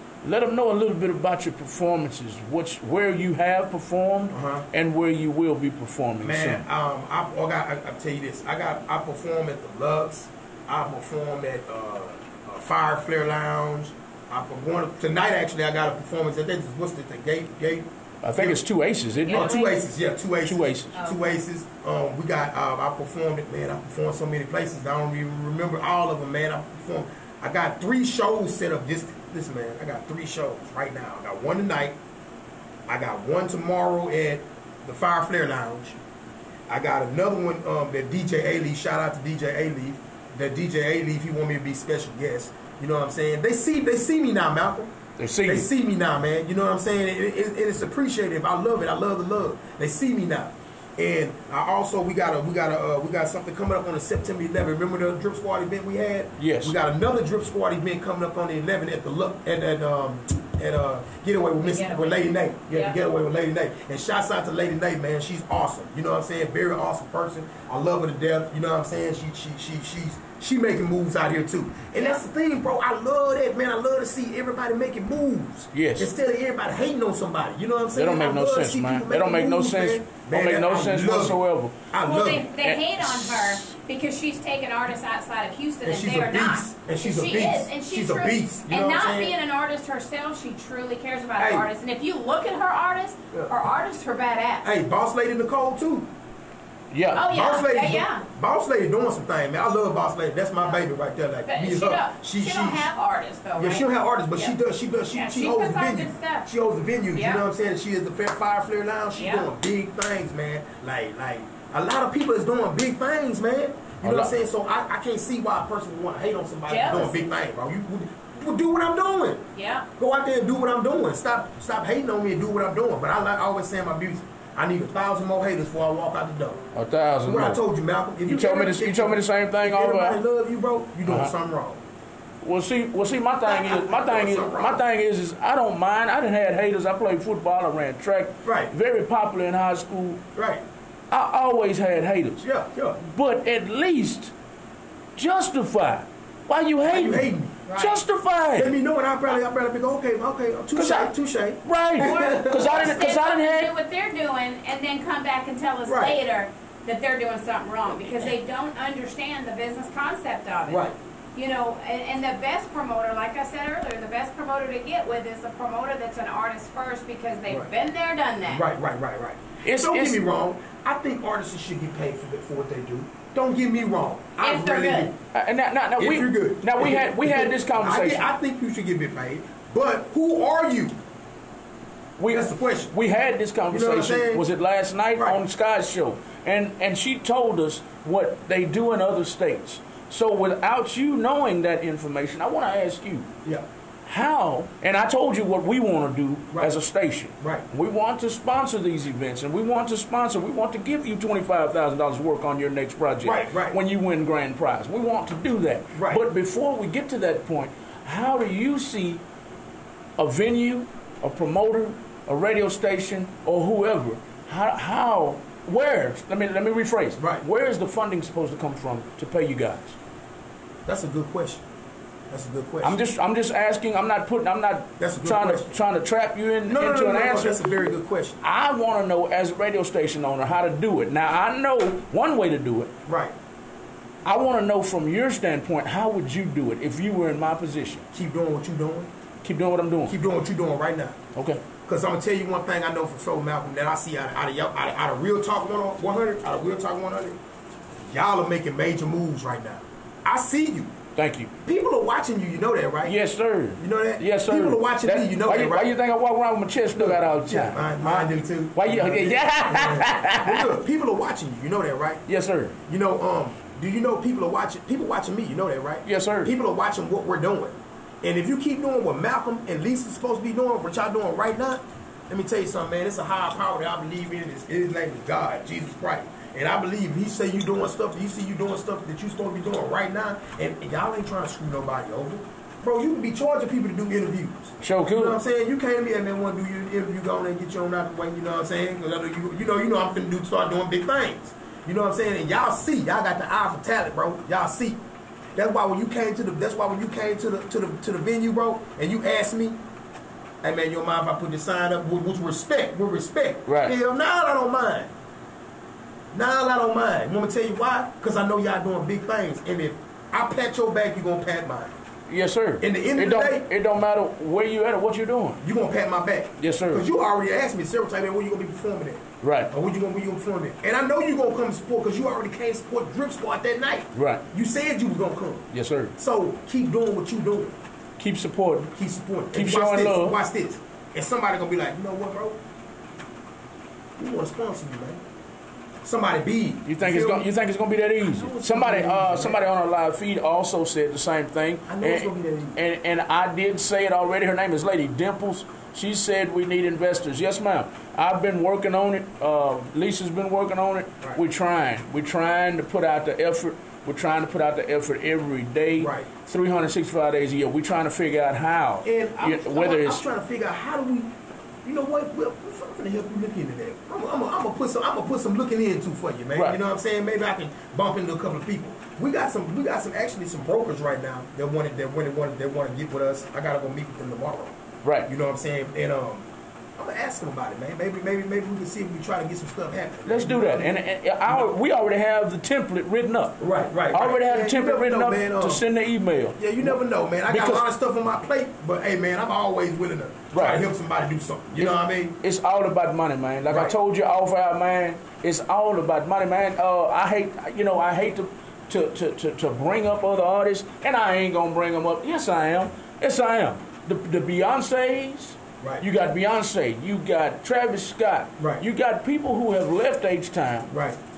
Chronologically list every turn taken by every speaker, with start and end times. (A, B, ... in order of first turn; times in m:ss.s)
0:00.2-0:06.6 A
0:04.3-0:04.7 B
0:06.2-0:18.6 B
0:18.2-0:19.6 A
0:19.3-0:19.8 C
0:19.3-0:32.0 B
0:20.4-0:20.9 A
0:20.9-0:21.4 C
0:32.9-0:36.0 B
0:36.7-0:44.9 B
0:45.2-0:45.7 A
0:45.4-1:21.4 B
0:56.4-0:56.8 A
1:01.6-1:03.0 C
1:12.0-1:12.2 C
1:15.7-1:16.1 A
1:18.0-1:21.8 A
1:21.9-1:22.5 B
1:22.0-1:34.7 C
1:22.6-1:23.7 A
1:25.8-1:29.4 B
1:31.4-1:31.7 B
1:34.6-1:36.1 B
1:36.9-1:37.3 A
1:37.1-1:38.2 C
1:37.3-1:42.9 B
1:41.5-1:44.6 C
1:43.6-1:59.4 B
1:45.1-1:46.5 C
1:47.1-1:47.4 C
1:49.2-1:49.5 C
1:54.0-1:54.3 A
1:56.7-1:57.3 C
1:59.6-1:59.9 C
2:00.0-2:06.6 B
2:06.7-2:07.6 A
2:07.2-2:11.8 B
2:08.3-2:10.2 A
2:11.0-2:11.3 A
2:12.4-2:20.2 A
2:13.4-2:14.8 B
2:18.4-2:18.7 B
2:20.4-2:20.6 B
2:21.1-2:22.4 A
2:22.4-2:23.0 B
2:23.0-2:24.3 A
2:25.2-2:28.7 A
2:26.8-2:27.6 B
2:27.7-2:28.0 C
2:28.6-2:32.9 B
2:30.7-2:31.1 A
2:31.6-2:33.7 A
2:32.0-2:48.6 C
2:35.9-2:36.2 B
2:40.7-2:41.0 B
2:48.5-2:55.1 B
2:49.6-2:50.2 A
2:54.4-2:55.1 C
2:55.3-2:58.2 A
2:56.0-3:01.0 B
3:02.2-3:13.3 A
3:02.3-3:03.0 B
3:03.7-3:04.4 B
3:05.2-3:05.4 B
3:14.1-3:29.2 A
3:17.4-3:17.7 B
3:23.2-3:23.8 B
3:26.0-3:26.2 B
3:30.2-3:40.0 A
3:37.2-3:37.4 B
3:40.9-3:41.6 B
3:42.3-3:43.0 B
3:42.8-3:47.8 A
3:45.0-3:45.8 B
3:46.7-3:48.4 B
3:48.4-3:52.9 A
3:53.1-3:53.4 B
3:54.2-3:58.0 A
3:58.1-3:59.1 B
3:59.4-4:00.2 A
4:00.1-4:01.2 B
4:01.4-4:01.6 A
4:01.8-4:07.4 B
4:08.1-4:10.9 B
4:11.2-4:11.5 A
4:11.6-4:13.2 B
4:13.0-4:20.7 A
4:13.8-4:15.9 B
4:17.0-4:22.2 B
4:22.3-4:22.8 A
4:22.9-4:55.0 B
4:26.1-4:26.5 A
4:44.8-4:45.4 A
4:55.6-4:59.8 B
5:00.6-5:05.1 B
5:03.7-5:04.0 A
5:06.3-5:12.0 B
5:12.3-5:15.6 A
5:12.8-5:13.7 B
5:15.6-5:25.7 B
5:16.6-5:17.1 A
5:19.4-5:19.7 A
5:24.1-5:24.4 A
5:25.7-5:26.1 A
5:26.2-5:27.8 B
5:28.2-5:28.9 A
5:29.0-5:32.6 B
5:29.5-5:30.4 A
5:34.2-5:35.2 B
5:36.0-5:37.5 B
5:36.9-6:00.2 A
5:38.2-5:39.7 B
5:41.9-5:42.8 B
5:56.0-5:56.3 B
5:59.0-6:01.3 B
6:01.8-6:21.7 B
6:15.0-6:15.3 A
6:20.3-6:27.8 A
6:23.6-6:25.8 B
6:26.6-6:32.4 B
6:30.5-6:30.8 A
6:31.8-6:50.9 A
6:33.7-6:33.9 B
6:45.8-6:46.1 B
6:48.6-6:48.8 B
6:50.9-6:51.2 B